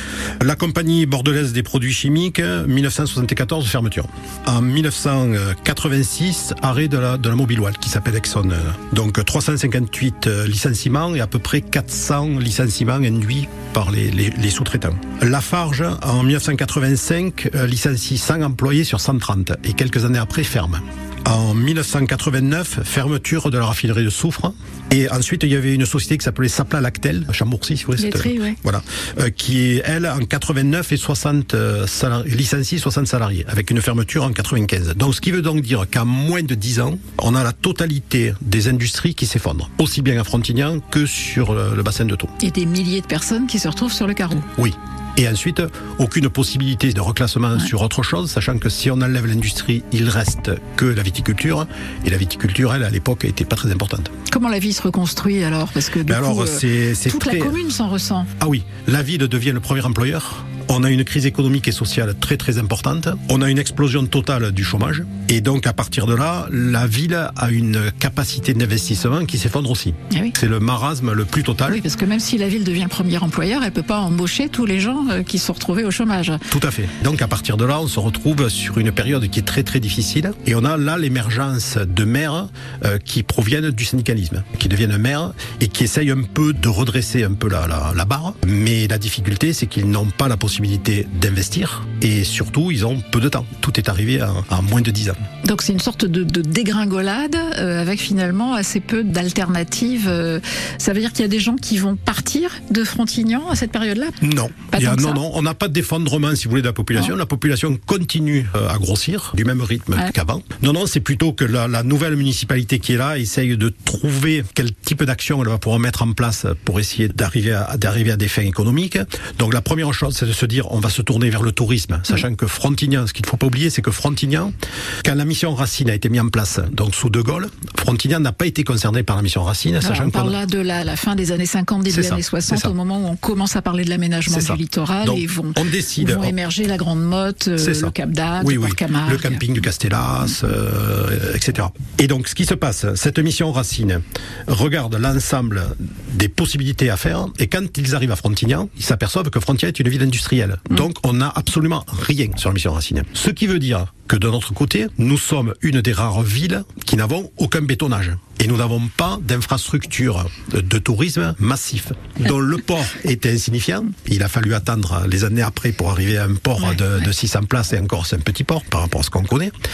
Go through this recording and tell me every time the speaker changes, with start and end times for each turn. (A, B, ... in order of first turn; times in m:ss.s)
0:00.4-0:42.3 A
0:28.0-0:28.6 B
0:42.4-0:44.5 B
0:44.6-0:54.1 A
0:54.3-0:58.3 B
0:56.0-0:57.6 A
0:58.4-1:11.8 A
1:11.7-1:16.4 B
1:16.5-1:35.2 A
1:35.4-1:44.2 B
1:44.2-2:10.4 A
1:44.7-1:45.2 B
2:09.8-2:19.4 B
2:11.9-2:12.7 A
2:14.3-2:16.3 A
2:17.6-2:49.5 A